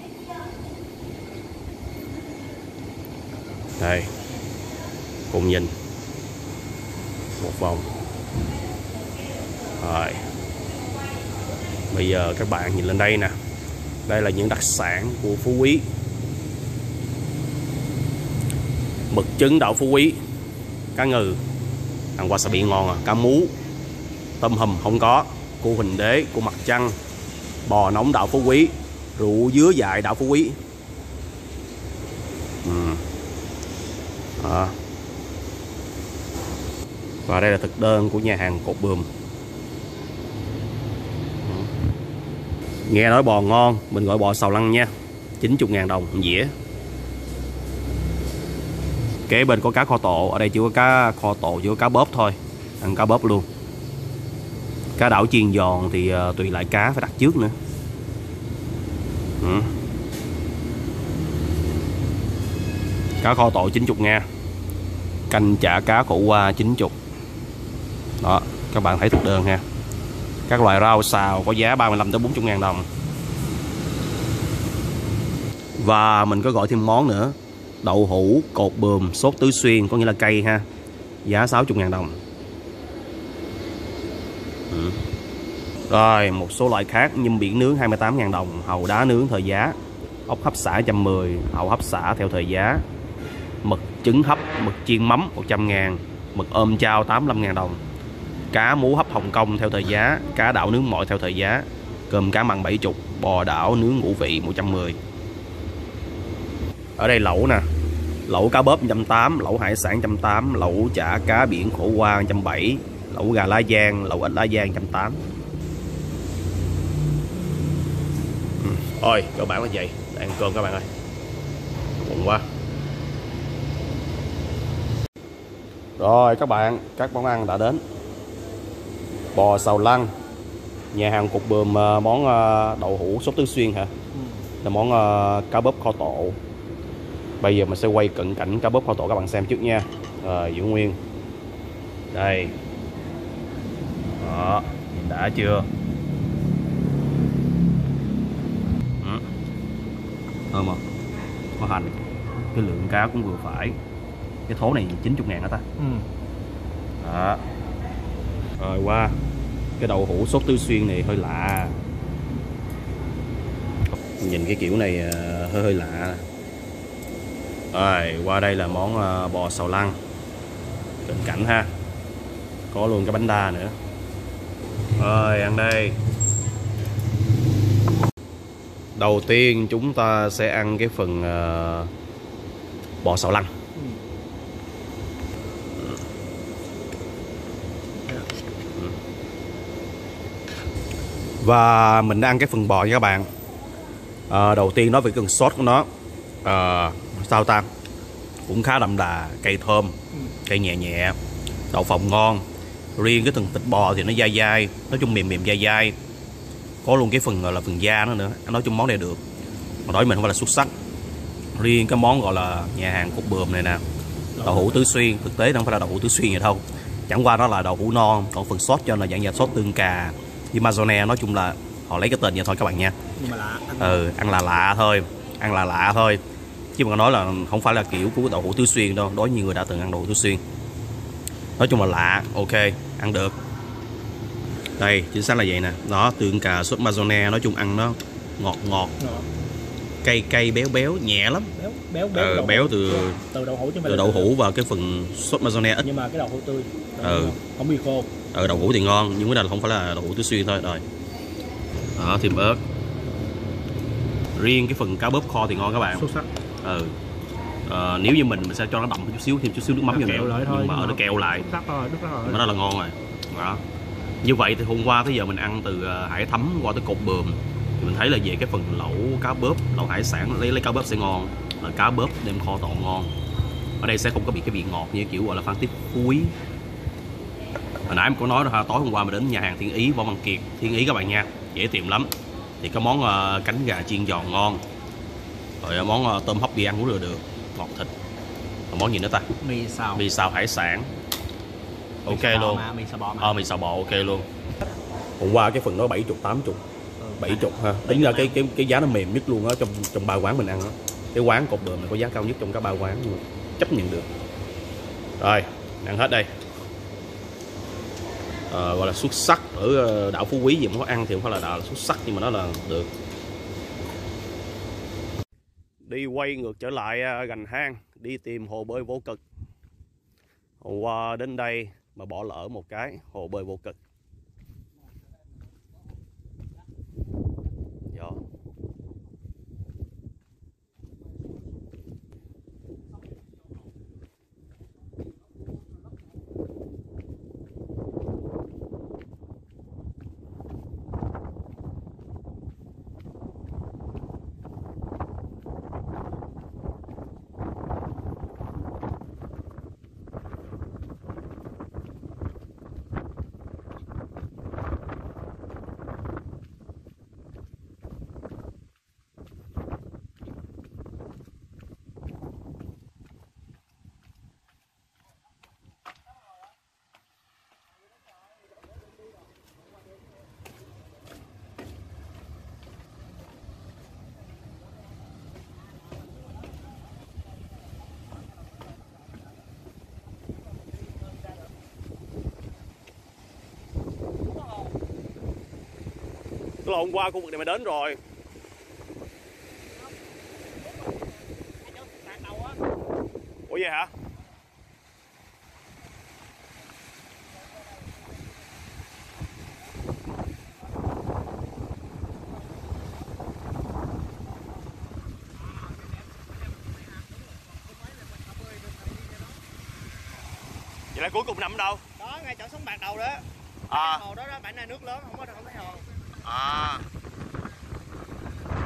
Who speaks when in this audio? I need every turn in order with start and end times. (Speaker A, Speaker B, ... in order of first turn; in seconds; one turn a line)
Speaker A: 3.8-4.1
Speaker A: 5.3-5.7
Speaker A: 7.4-7.9
Speaker A: 9.8-10.2
Speaker A: 11.9-13.4
Speaker A: 14.1-15.9
Speaker A: 19.1-20.2
Speaker A: 20.9-21.4
Speaker A: 22.2-23.5
Speaker A: 24.4-27.0
Speaker A: 27.7-30.6
Speaker A: 32.6-33.0
Speaker A: 34.4-34.8
Speaker A: 37.3-39.1
Speaker A: 41.5-41.7
Speaker A: 42.9-46.5
Speaker A: 49.3-53.5
Speaker A: 55.0-57.5
Speaker A: 59.4-59.7
Speaker A: 63.2-64.2
Speaker A: 65.3-67.0
Speaker A: 68.2-69.6
Speaker A: 70.5-72.9
Speaker A: 75.8-80.7
Speaker A: 81.2-82.2
Speaker A: 84.7-85.0
Speaker A: 85.9-89.8
Speaker A: 90.3-92.8
Speaker A: 93.6-97.8
Speaker A: 98.5-105.0
Speaker A: 107.0-107.7
Speaker A: 108.3-115.2
Speaker A: 118.6-120.9
Speaker A: 122.0-122.5
Speaker A: 126.0-127.8
Speaker A: 129.3-130.1
Speaker A: 130.9-133.9
Speaker B: 134.2-134.4
Speaker A: 134.6-136.4
Speaker A: 137.4-141.0
Speaker A: 142.1-142.6
Speaker A: 144.2-145.7
Speaker A: 150.5-150.8
Speaker A: 151.6-152.0
Speaker A: 152.5-153.8
Speaker A: 154.5-155.7
Speaker B: 155.8-156.1
Speaker A: 157.0-157.4
Speaker A: 158.6-159.2
Speaker A: 159.8-161.8
Speaker A: 164.2-166.2
Speaker A: 167.7-170.0
Speaker A: 171.1-171.7
Speaker A: 172.7-173.8
Speaker A: 175.0-176.0
Speaker A: 179.0-181.9
Speaker A: 183.0-183.5
Speaker B: 183.8-184.0
Speaker A: 191.4-193.3
Speaker A: 194.3-195.9
Speaker A: 196.4-197.7
Speaker A: 198.5-201.2
Speaker A: 201.7-202.4
Speaker A: 203.0-205.9
Speaker A: 206.8-209.2
Speaker A: 209.9-210.7
Speaker A: 211.6-213.8
Speaker B: 214.4-214.8
Speaker A: 214.4-222.9
Speaker B: 223.2-224.0
Speaker A: 223.8-226.2
Speaker A: 226.8-230.4
Speaker A: 231.6-233.4
Speaker A: 234.8-238.9
Speaker B: 239.0-239.3
Speaker A: 240.0-241.5
Speaker B: 241.6-244.3
Speaker A: 242.1-243.2
Speaker A: 243.8-245.8
Speaker B: 245.8-248.7
Speaker A: 247.0-247.4
Speaker A: 248.3-250.8
Speaker A: 252.0-252.6
Speaker A: 254.4-256.1
Speaker B: 255.9-256.3
Speaker A: 256.6-256.9
Speaker A: 257.7-261.5
Speaker B: 259.9-262.4
Speaker A: 262.2-263.6
Speaker A: 264.2-273.1
Speaker A: 273.8-276.4
Speaker A: 277.9-282.1
Speaker A: 282.6-284.6
Speaker A: 285.6-287.9
Speaker A: 288.7-289.3
Speaker B: 289.4-290.1
Speaker A: 289.9-290.9
Speaker A: 292.1-292.7
Speaker B: 292.1-293.4
Speaker A: 293.2-294.3
Speaker A: 295.2-296.6
Speaker B: 297.0-298.4
Speaker A: 297.2-304.1
Speaker A: 305.2-306.3
Speaker A: 308.5-312.9
Speaker A: 315.8-319.2
Speaker A: 320.6-323.8
Speaker A: 327.9-328.2
Speaker C: 375.9-376.4
Speaker C: 380.6-381.5
Speaker C: 384.2-384.8
Speaker A: 386.6-388.0
Speaker C: 390.5-392.6
Speaker A: 393.5-393.9
Speaker C: 397.4-398.3
Speaker C: 402.6-402.9
Speaker C: 405.4-409.4
Speaker A: 410.9-411.8
Speaker C: 412.0-416.1
Speaker A: 413.7-414.0
Speaker A: 416.2-416.8